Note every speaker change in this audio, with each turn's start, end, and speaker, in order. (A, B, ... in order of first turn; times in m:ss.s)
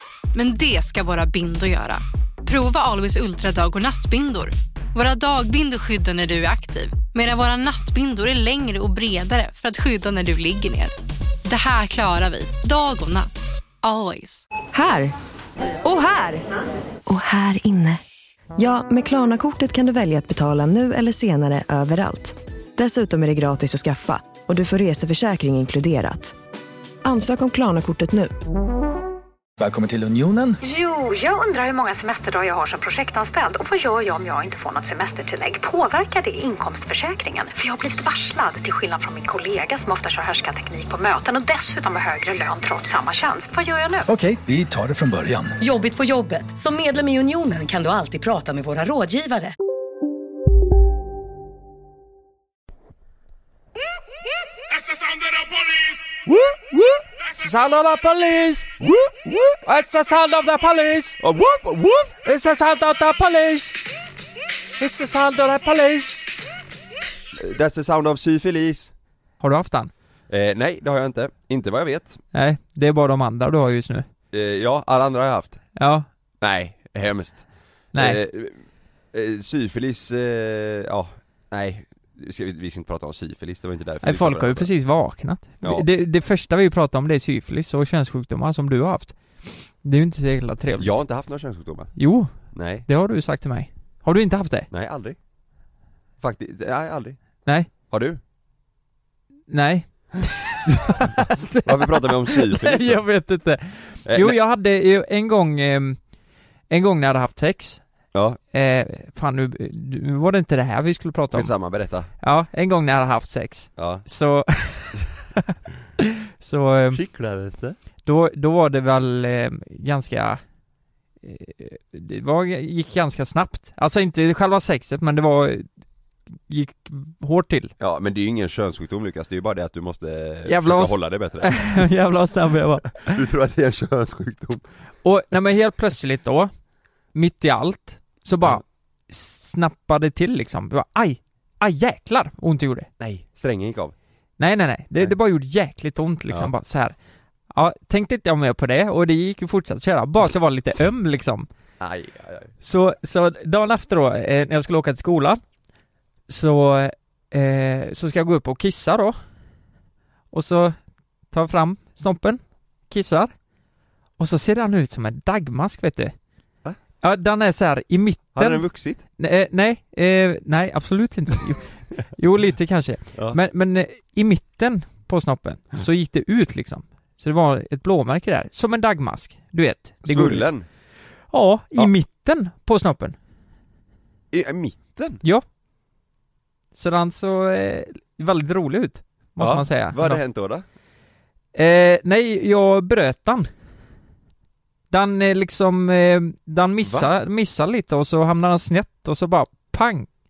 0:00.3-0:13.3 A
0:13.8-0:14.4 A
0:14.7-0:15.1 B
0:15.8-0:16.4 B
0:17.1-0:18.0 B
0:18.6-0:26.3 B
0:27.0-0:28.3 B
0:29.6-0:30.6 C
0:30.6-0:44.1 D
0:44.1-0:45.6 C
0:45.6-0:49.5 E
0:56.2-0:57.0 F
0:57.4-0:58.7 G
0:58.8-0:59.6 F
0:59.6-1:01.2 G
1:01.2-1:02.1 F
1:02.2-1:03.8 G
1:04.8-1:06.2 G
1:07.3-1:08.9 F
1:09.4-1:09.9 G
1:10.3-1:12.2 F
1:12.3-1:14.0 G
1:14.3-1:15.6 F
1:15.8-1:16.0 G
1:16.4-1:24.7 F
1:17.9-1:18.2 G
1:24.0-1:31.0 G
1:25.6-1:25.9 F
1:30.8-1:31.9 F
1:32.0-1:32.3 G
1:32.5-1:32.8 F
1:32.8-1:34.7 G
1:34.7-1:35.2 F
1:36.2-1:37.2 F
1:37.9-1:38.2 F
1:39.5-1:46.0 G
1:40.7-1:43.0 F
1:44.0-1:44.4 F
1:46.7-1:47.8 G
1:48.1-1:48.4 F
1:48.5-1:51.5 G
1:51.3-1:52.1 F
1:52.2-1:57.0 G
1:53.8-1:54.0 F
1:56.9-1:57.8 F
1:58.0-2:00.4 G
2:01.2-2:05.7 G
2:06.5-2:07.7 G
2:07.8-2:11.9 F
2:10.4-2:13.2 G
2:13.0-2:14.6 F
2:15.0-2:16.5 G
2:17.1-2:22.9 G
2:23.0-2:23.9 F
2:24.4-2:27.0 G
2:27.5-2:31.5 G
2:31.8-2:32.5 F
2:32.6-2:35.4 G
2:36.3-2:39.2 G
2:40.3-2:40.8 G
2:41.3-2:43.3 G
2:44.2-2:46.1 G
2:47.0-3:00.5 G
2:48.3-2:49.0 F
3:00.0-3:00.7 F
3:01.3-3:03.2 G
3:04.3-3:05.2 F
3:06.7-3:10.2 G
3:09.4-3:10.6 F
3:11.5-3:13.5 G
3:14.9-3:20.1 G
3:16.8-3:17.1 F